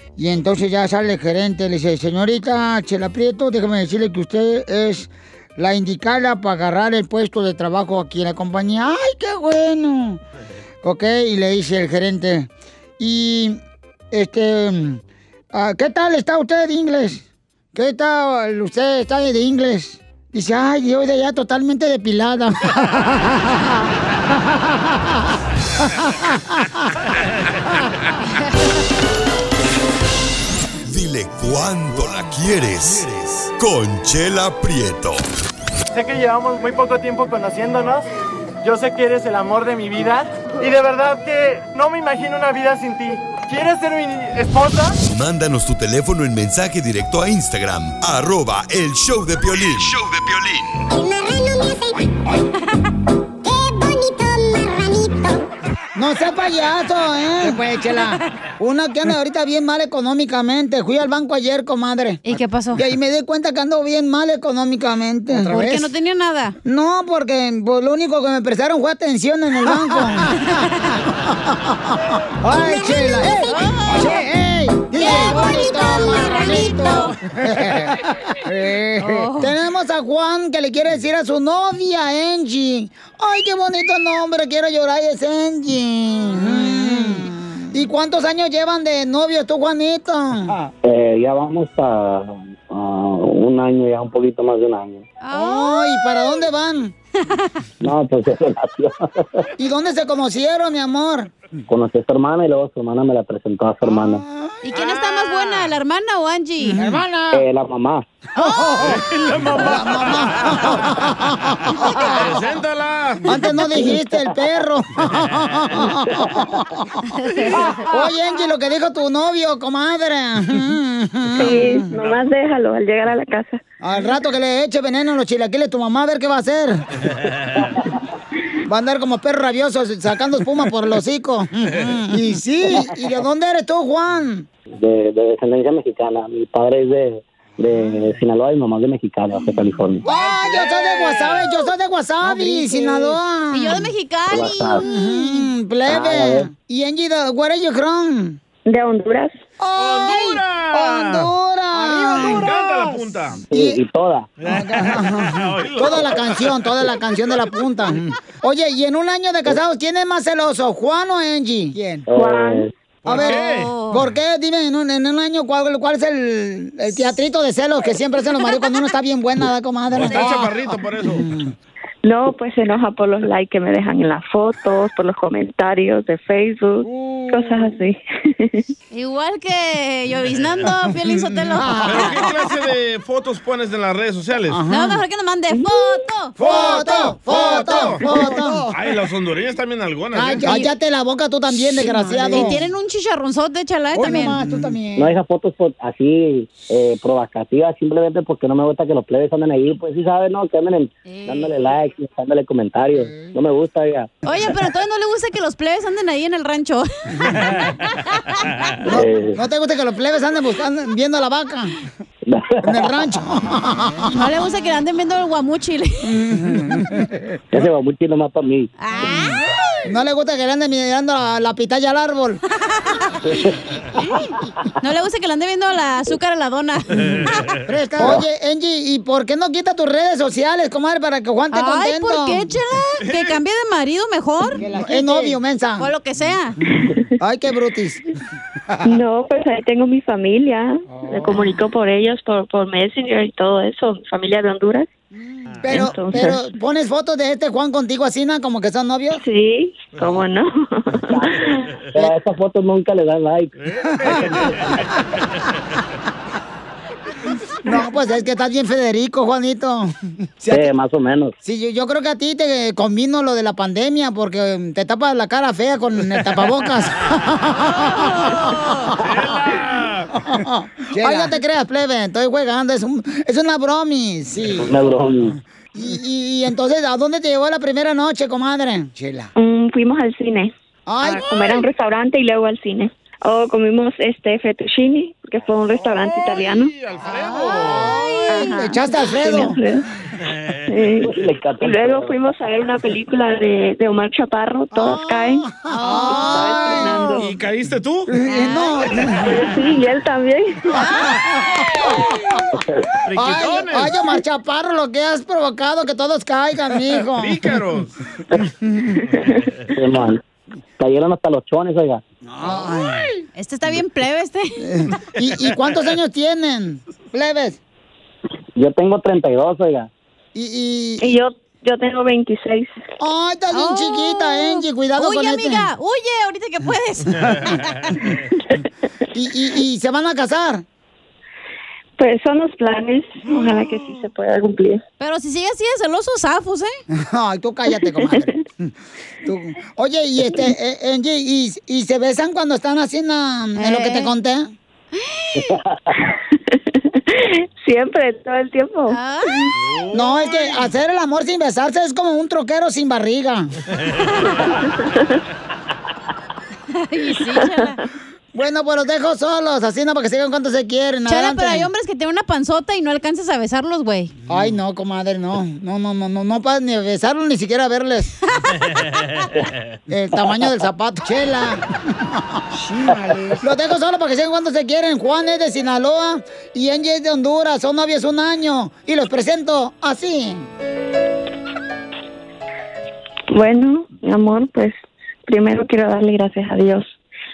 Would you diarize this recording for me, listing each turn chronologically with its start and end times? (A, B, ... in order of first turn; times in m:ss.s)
0:00.2-0:10.2 A
0:10.8-0:13.6 A
0:14.1-0:15.0 A
0:15.5-0:23.8 A
0:24.4-0:25.3 A
0:26.2-0:26.8 A
0:30.9-0:35.2 B
0:35.9-0:38.1 C
0:38.6-0:45.0 C
0:45.0-0:50.8 B
0:50.9-0:52.4 D
0:53.4-0:55.4 D
0:56.0-1:05.9 A
1:02.2-1:02.8 E
1:05.3-1:06.6 E
1:06.6-1:10.5 A
1:10.3-1:11.0 E
1:11.3-1:30.6 A
1:12.7-1:14.2 E
1:14.9-1:17.2 E
1:19.0-1:19.5 E
1:26.4-1:27.1 E
1:30.8-1:35.0 F
1:35.2-1:36.4 E
1:35.3-1:36.9 A
1:37.8-1:38.9 F
1:39.6-1:41.3 A
1:41.7-1:44.2 F
1:43.8-1:44.6 A
1:44.6-1:46.8 E
1:44.7-1:45.7 G
1:46.6-1:47.4 A
1:47.3-1:48.0 F
1:48.4-1:52.4 A
1:48.4-1:48.9 E
1:48.8-1:51.1 G
1:51.9-1:53.3 G
1:53.2-1:57.1 A
1:57.9-2:01.9 A
2:01.3-2:03.6 H
2:03.8-2:06.8 A
2:07.3-2:07.6 G
2:08.6-2:14.4 A
2:14.8-2:20.0 F
2:20.0-2:23.9 A
2:20.1-2:21.5 G
2:23.5-2:25.5 E
2:24.3-2:24.8 F
2:24.8-2:28.4 A
2:25.9-2:26.5 F
2:28.6-2:29.4 H
2:29.6-2:33.8 A
2:29.8-2:33.4 G
2:33.5-2:34.3 F
2:34.4-2:36.9 G
2:34.4-2:42.0 A
2:42.1-2:42.7 F
2:43.0-2:43.7 G
2:43.0-2:51.5 A
2:43.2-2:44.0 E
2:49.9-2:51.2 G
2:52.0-2:58.6 H
2:56.9-2:57.6 A
2:58.9-3:02.1 E
3:01.0-3:02.4 A
3:01.8-3:04.6 G
3:04.5-3:05.0 A
3:04.7-3:06.3 E
3:06.4-3:10.5 G
3:06.4-3:08.7 A
3:10.2-3:12.6 A
3:10.4-3:10.7 E
3:11.7-3:14.4 E
3:13.9-3:15.2 A
3:15.0-3:24.1 F
3:21.0-3:21.5 E
3:23.0-3:23.3 A
3:24.2-3:27.9 E
3:28.8-3:31.8 A
3:28.9-3:29.4 F
3:32.3-3:32.9 F
3:32.6-3:34.1 A
3:34.1-3:36.1 E
3:36.1-3:36.9 A
3:37.5-3:38.7 F
3:38.8-3:39.4 E
3:39.1-3:39.3 A
3:39.8-3:42.4 A
3:44.8-3:47.3 E
3:47.0-3:47.5 G
3:47.6-3:52.5 A
3:51.5-3:56.6 E
3:53.0-3:53.4 G
3:54.6-3:55.9 A
3:57.2-3:58.0 A
3:58.8-4:04.9 H
4:00.9-4:01.4 A
4:05.1-4:09.2 A
4:05.5-4:05.9 G
4:05.7-4:06.4 H
4:09.1-4:11.6 H
4:09.9-4:10.2 G
4:11.9-4:13.5 F
4:13.6-4:14.8 G
4:17.6-4:20.7 A
4:20.5-4:21.3 F
4:21.4-4:29.2 A
4:27.8-4:28.8 E
4:29.0-4:30.1 G
4:30.1-4:34.8 A
4:31.0-4:31.3 E
4:34.5-4:35.3 F
4:35.8-4:39.3 A
4:39.4-4:46.7 H
4:40.9-4:41.6 A
4:45.7-4:48.0 G
4:47.0-4:49.6 A
4:47.7-4:49.5 E
4:48.3-4:49.8 H
4:50.2-4:50.8 G
4:50.7-4:57.3 H
4:51.1-4:52.2 F
4:54.8-4:57.1 A
4:55.7-4:57.1 E
4:57.2-4:58.1 G
4:58.1-4:59.3 A
4:58.3-4:58.9 E
4:59.1-5:00.8 H
5:00.8-5:01.1 E
5:00.8-5:02.4 A
5:03.0-5:04.0 G
5:03.1-5:07.5 A
5:07.1-5:08.0 G
5:08.7-5:08.9 A
5:09.1-5:09.4 H
5:09.1-5:09.7 G
5:09.8-5:10.2 F
5:10.8-5:12.0 F
5:12.3-5:13.1 A
5:13.4-5:14.6 E
5:14.6-5:17.6 A
5:15.3-5:15.8 G
5:18.6-5:19.9 F
5:20.3-5:21.2 A
5:21.0-5:22.8 H
5:23.0-5:25.7 A
5:23.5-5:27.6 E
5:27.2-5:27.8 G
5:29.1-5:30.6 A
5:32.0-5:34.8 H
5:35.0-5:36.8 E
5:37.0-5:38.7 A
5:37.7-5:38.3 H
5:39.2-5:44.5 A
5:43.6-5:44.1 E
5:45.0-5:45.4 E
5:47.1-5:49.5 H
5:48.9-5:49.5 E
5:49.5-5:50.6 G
5:49.9-5:53.5 A
5:53.8-5:54.2 G
5:54.7-5:55.1 H
5:56.8-5:57.8 E
5:57.3-5:57.7 H
5:58.3-6:01.7 A
6:01.1-6:04.1 E
6:04.3-6:08.1 A
6:08.7-6:09.2 G
6:09.9-6:20.5 A
6:23.3-6:27.0 H